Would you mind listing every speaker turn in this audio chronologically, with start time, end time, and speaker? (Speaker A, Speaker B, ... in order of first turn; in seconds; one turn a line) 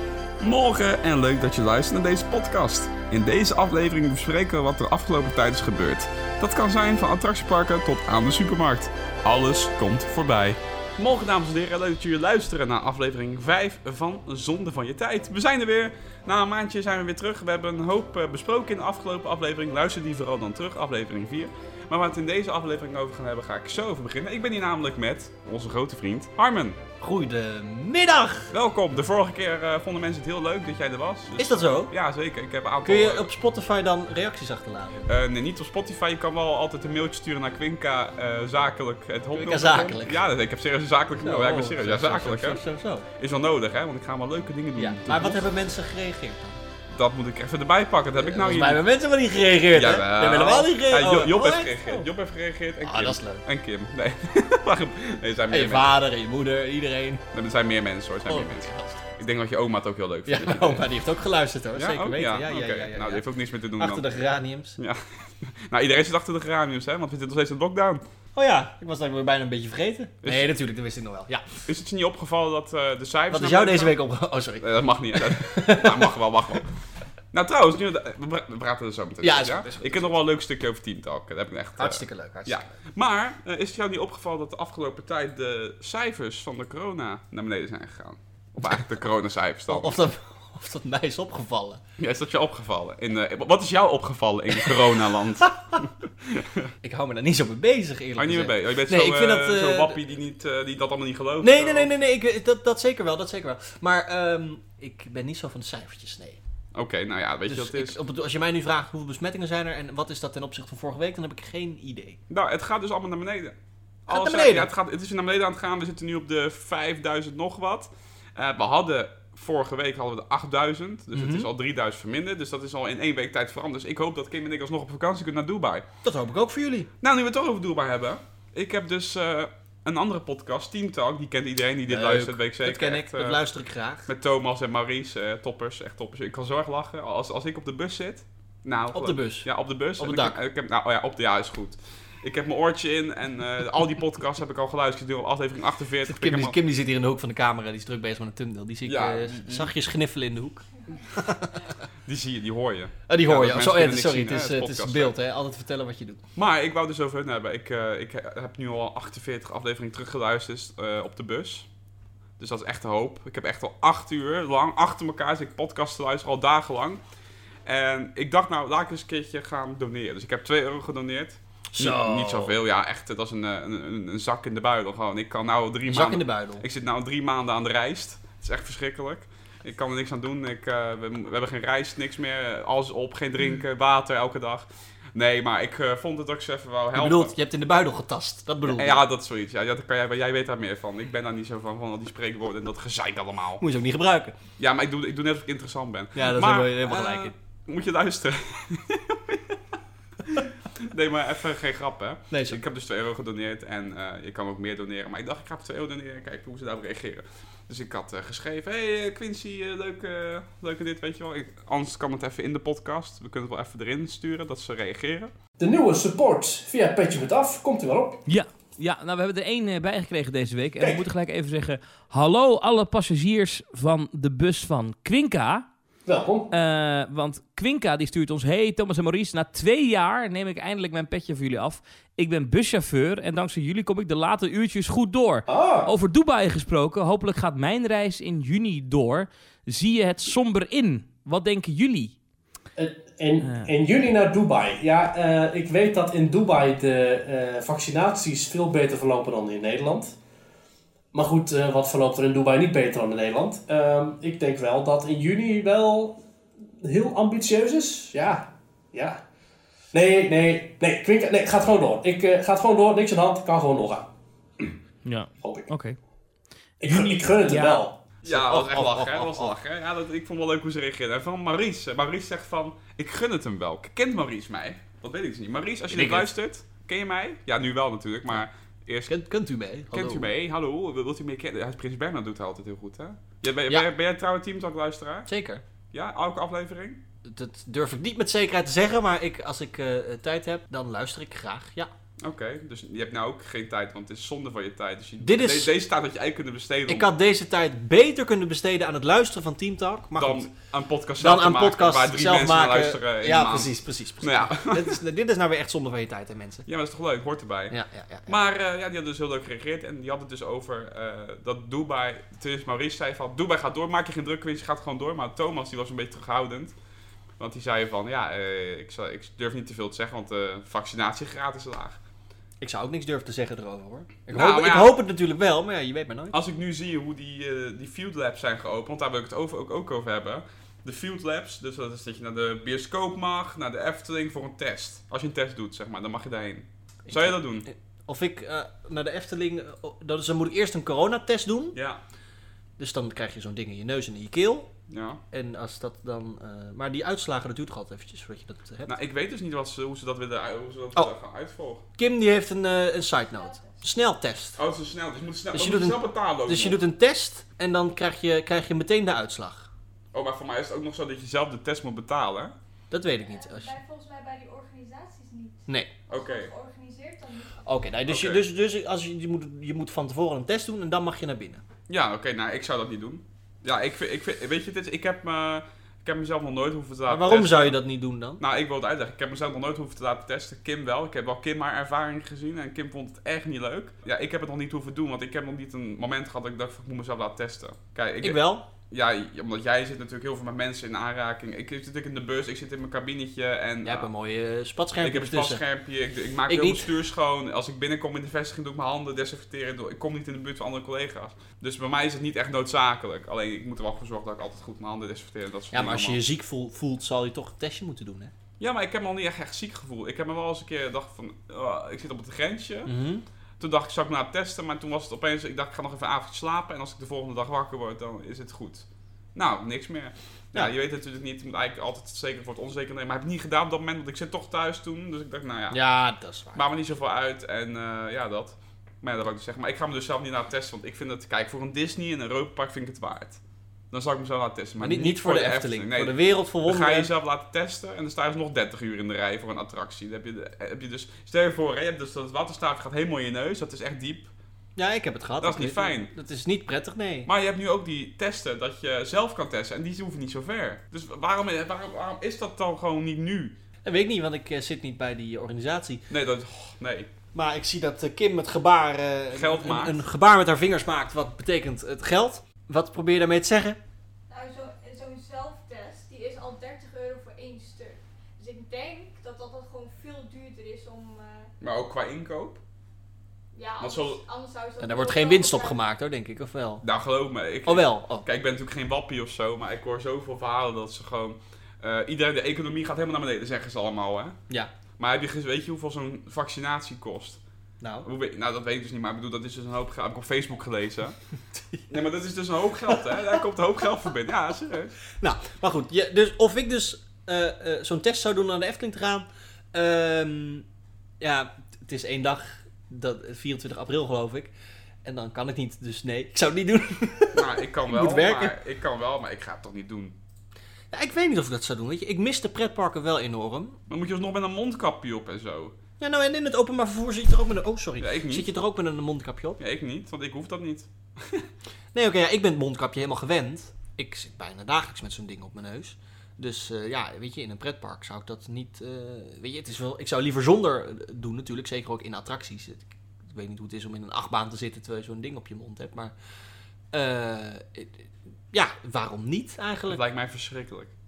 Speaker A: 0.4-26.8
Speaker B: 27.0-28.5
Speaker A: 28.5-33.3
Speaker B: 31.4-31.9
Speaker B: 32.8-35.1
Speaker A: 35.1-42.6
Speaker B: 39.3-40.2
Speaker B: 41.2-43.0
Speaker A: 43.2-45.4
Speaker B: 44.8-46.6
Speaker A: 47.0-48.9
Speaker B: 48.2-52.1
Speaker A: 49.7-56.0
Speaker B: 52.8-53.4
Speaker B: 55.5-57.2
Speaker A: 57.3-60.9
Speaker B: 58.3-59.0
Speaker B: 60.3-63.2
Speaker A: 61.7-64.1
Speaker B: 63.8-64.8
Speaker A: 64.8-68.0
Speaker B: 68.3-71.6
Speaker A: 70.2-70.5
Speaker A: 71.7-74.0
Speaker B: 73.3-74.7
Speaker A: 74.6-76.7
Speaker B: 75.2-76.1
Speaker A: 77.3-90.0
Speaker B: 79.2-80.2
Speaker B: 81.8-82.7
Speaker B: 89.7-91.8
Speaker A: 92.0-96.7
Speaker B: 96.8-100.0
Speaker A: 98.2-101.9
Speaker B: 101.4-106.4
Speaker A: 106.7-108.0
Speaker B: 107.5-112.2
Speaker A: 112.3-113.5
Speaker A: 114.1-125.8
Speaker B: 114.1-114.7
Speaker B: 121.1-121.5
Speaker B: 126.0-126.9
Speaker A: 127.0-133.4
Speaker B: 131.9-134.1
Speaker A: 134.1-146.6
Speaker B: 138.9-140.4
Speaker B: 146.1-151.6
Speaker A: 148.8-149.7
Speaker A: 152.1-155.1
Speaker B: 153.1-156.2
Speaker A: 156.3-161.7
Speaker A: 162.4-167.0
Speaker A: 167.6-187.3
Speaker B: 171.7-172.6
Speaker B: 175.8-176.6
Speaker B: 186.9-189.0
Speaker A: 188.6-193.6
Speaker B: 193.6-194.3
Speaker A: 194.6-199.6
Speaker B: 196.1-197.3
Speaker A: 200.3-215.3
Speaker B: 202.3-202.6
Speaker C: 215.6-218.2
Speaker D: 218.3-225.7
Speaker C: 220.8-221.1
Speaker C: 226.1-226.5
Speaker D: 226.5-242.2
Speaker C: 235.5-235.9
Speaker C: 242.8-250.2
Speaker D: 243.4-243.7
Speaker C: 251.1-256.2
Speaker C: 256.8-259.2
Speaker C: 259.9-264.1
Speaker D: 265.1-265.9
Speaker C: 265.4-265.7
Speaker C: 266.8-268.0
Speaker D: 266.9-267.8
Speaker A: 268.2-279.1
Speaker B: 268.2-269.5
Speaker B: 275.9-276.3
Speaker B: 279.1-280.3
Speaker A: 279.9-285.3
Speaker B: 285.3-285.6
Speaker A: 285.9-287.0
Speaker B: 287.2-291.9
Speaker A: 292.2-297.1
Speaker B: 295.2-295.8
Speaker B: 296.9-300.5
Speaker A: 300.1-305.0
Speaker B: 301.2-306.7
Speaker A: 306.6-316.8
Speaker B: 307.7-308.4
Speaker A: 317.4-322.0
Speaker B: 322.6-326.4
Speaker A: 324.3-325.0
Speaker A: 326.3-337.6
Speaker B: 337.1-341.8
Speaker A: 341.7-342.0
Speaker B: 342.8-344.7
Speaker A: 344.9-345.2
Speaker B: 345.3-348.9
Speaker A: 348.9-351.8
Speaker B: 352.0-354.6
Speaker E: 353.3-353.7
Speaker A: 354.6-356.8
Speaker B: 355.5-359.7
Speaker A: 360.1-362.5
Speaker B: 362.9-363.8
Speaker E: 363.2-367.6
Speaker A: 366.1-366.5
Speaker B: 367.6-371.6
Speaker A: 368.1-368.4
Speaker A: 371.9-377.8
Speaker B: 377.1-378.4
Speaker A: 378.4-394.1
Speaker B: 388.2-388.7
Speaker B: 393.8-395.6
Speaker A: 395.0-406.2
Speaker B: 396.5-396.9
Speaker B: 405.7-408.3
Speaker A: 408.6-412.9
Speaker B: 412.9-413.2
Speaker A: 413.6-425.8
Speaker B: 425.7-426.6
Speaker A: 426.5-433.4
Speaker A: 433.9-436.1
Speaker B: 434.8-437.1
Speaker A: 436.6-444.3
Speaker B: 444.8-447.3
Speaker A: 445.4-446.1
Speaker A: 447.2-453.6
Speaker B: 453.8-456.0
Speaker A: 456.1-457.1
Speaker B: 457.3-463.8
Speaker A: 459.3-460.0
Speaker E: 464.3-471.5
Speaker A: 471.6-472.6
Speaker E: 473.5-475.8
Speaker A: 473.8-474.2
Speaker B: 474.8-476.8
Speaker A: 476.8-484.4
Speaker B: 477.7-478.3
Speaker A: 485.0-487.4
Speaker B: 487.8-488.1
Speaker A: 488.0-491.2
Speaker A: 491.9-495.0
Speaker B: 495.2-500.6
Speaker B: 501.2-504.5
Speaker B: 505.0-508.5
Speaker A: 507.3-510.2
Speaker B: 510.9-513.8
Speaker A: 513.9-515.8
Speaker B: 516.0-519.6
Speaker A: 518.0-518.5
Speaker A: 519.6-521.5
Speaker B: 521.9-536.1
Speaker B: 536.9-540.0
Speaker A: 539.9-540.9